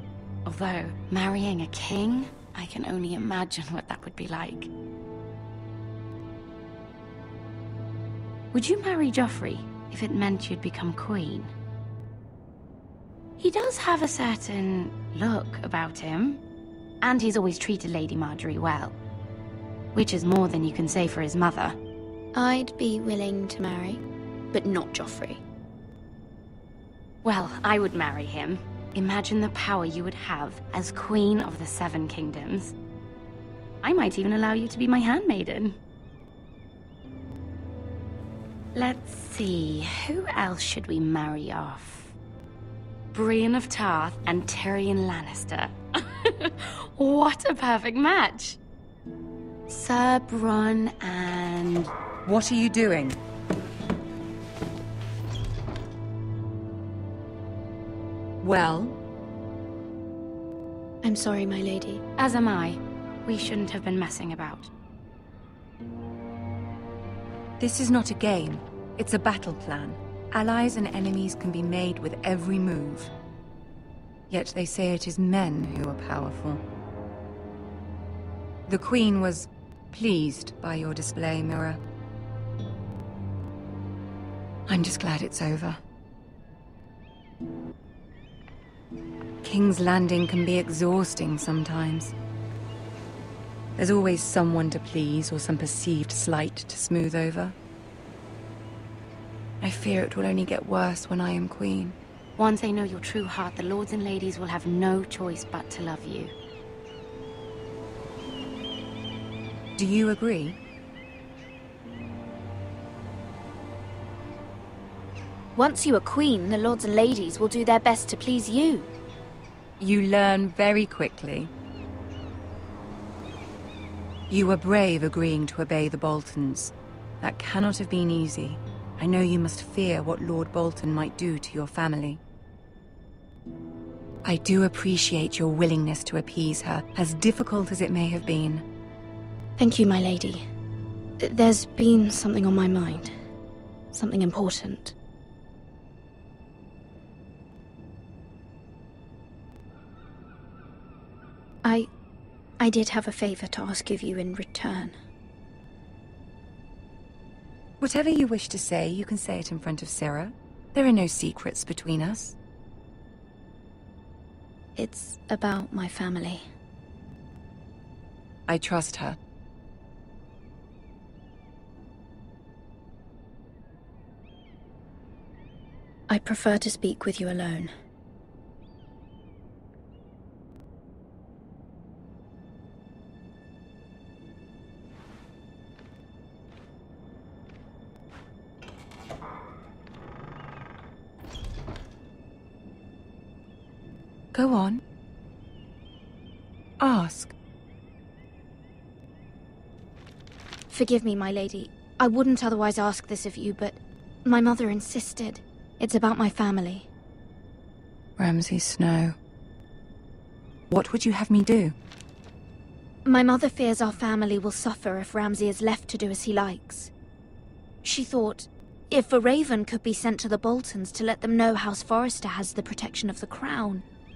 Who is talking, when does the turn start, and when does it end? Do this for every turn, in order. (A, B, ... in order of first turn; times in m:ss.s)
0:00.4-0:04.7 A
0:08.5-0:11.5 A
0:13.4-0:16.4 A
0:17.0-0:19.0 A
0:19.9-0:21.8 A
0:22.3-0:25.4 B
0:27.2-0:32.8 A
0:33.8-0:35.8 A
0:38.8-0:42.1 A
0:43.1-0:48.6 A
0:49.7-0:51.9 A
0:52.2-0:53.2 C
0:58.4-0:59.0 C
1:01.0-1:02.0 B
1:02.2-1:04.7 A
1:07.6-1:13.1 C
1:14.3-1:16.6 C
1:18.7-1:21.8 C
1:24.7-1:25.8 C
1:29.4-1:32.1 C
1:33.8-1:37.6 C
1:39.6-1:42.0 C
1:42.4-1:46.3 A
1:49.8-1:50.6 C
1:55.6-1:58.9 B
1:59.8-2:01.5 C
2:04.3-2:12.2 C
2:14.2-2:18.6 C
2:19.6-2:20.4 B
2:21.2-2:23.1 B
2:23.9-2:24.9 B
2:31.6-2:31.9 B
2:32.6-2:35.0 B
2:37.8-2:42.4 C
2:44.8-2:46.5 B
2:48.5-2:49.2 C
2:56.1-2:57.7 B
3:14.3-3:14.8 C
3:16.8-3:17.3 C
3:20.7-3:26.9 B
3:28.2-3:29.2 C
3:30.7-3:31.8 C
3:33.0-3:36.9 B
3:37.8-3:43.8 B